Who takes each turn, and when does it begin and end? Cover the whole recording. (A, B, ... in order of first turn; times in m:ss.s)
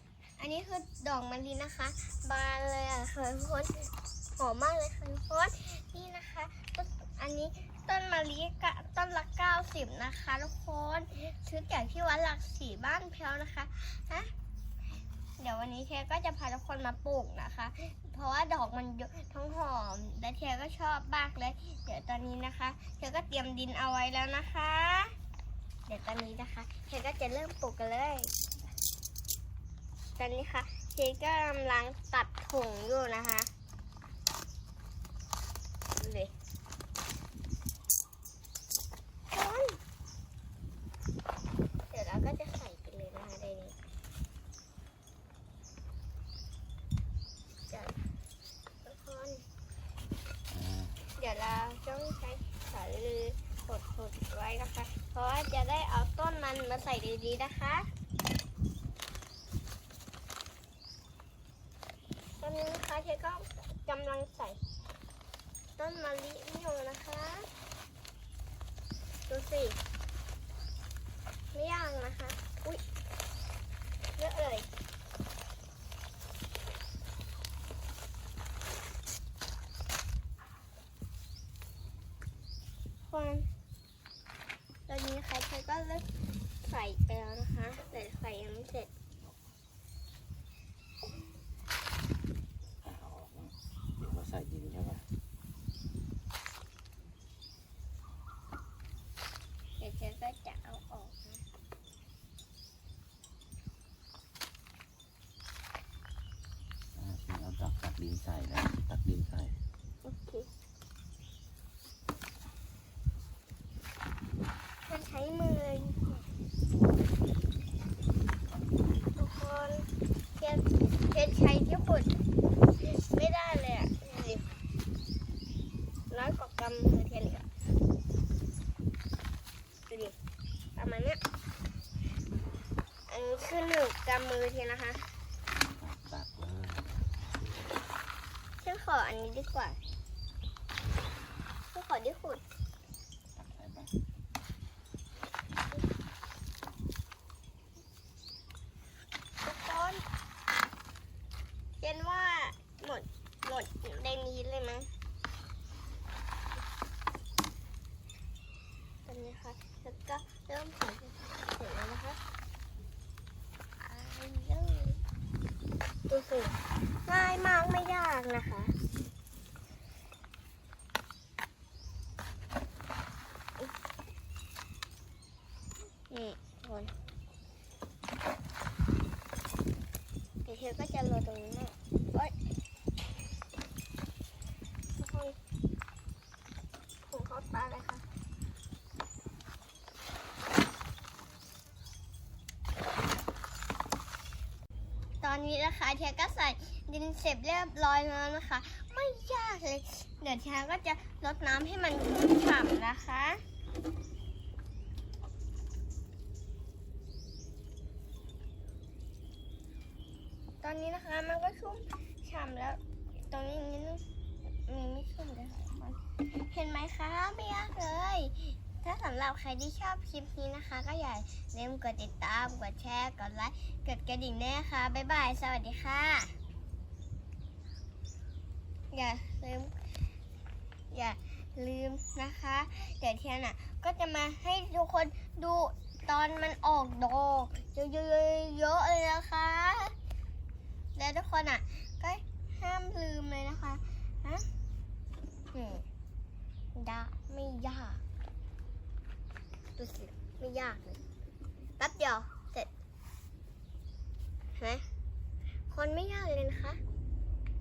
0:00.4-0:14.3 A
0:15.4-0:25.1 A
0:25.9-0:28.3 A
0:30.2-0:33.5 A
0:36.0-0:36.3 A
0:39.3-0:39.8 A
0:41.9-0:43.8 A
0:47.7-0:48.0 A
0:48.8-0:49.4 A
0:50.5-0:51.0 B
0:51.2-0:57.9 A
1:02.4-1:04.6 A
1:05.8-1:07.5 A
1:09.3-1:09.8 A
1:11.5-1:12.8 A
1:14.2-1:14.7 A
1:23.1-1:23.5 A
1:24.9-1:26.1 A
1:26.6-1:28.9 A
1:32.8-1:35.0 B
1:39.8-1:41.4 A
1:46.9-1:49.6 B
1:50.0-1:50.5 A
1:54.9-1:56.2 A
1:59.2-2:02.1 A
2:02.8-2:04.5 A
2:06.1-2:07.4 A
2:09.9-2:10.1 A
2:10.8-2:11.2 A
2:13.1-2:15.1 A
2:15.6-2:17.0 B
2:18.6-2:19.8 A
2:21.7-2:22.4 A
2:23.3-2:23.9 B
2:29.4-2:30.0 A
2:31.8-2:34.9 A
2:39.0-2:42.2 A
2:43.8-2:45.0 A
2:46.1-2:48.7 A
2:56.1-2:56.9 A
3:00.4-3:02.4 A
3:05.0-3:05.4 A
3:07.0-3:08.0 A
3:15.2-3:23.4 A
3:30.6-3:34.0 A
3:34.6-3:46.3 A
3:48.9-3:49.7 A
3:50.9-3:59.9 A
4:01.0-4:04.4 A
4:05.5-4:05.8 A
4:06.7-4:08.0 A
4:09.8-4:11.0 A
4:11.8-4:12.7 A
4:14.6-4:14.8 A
4:15.7-4:16.8 A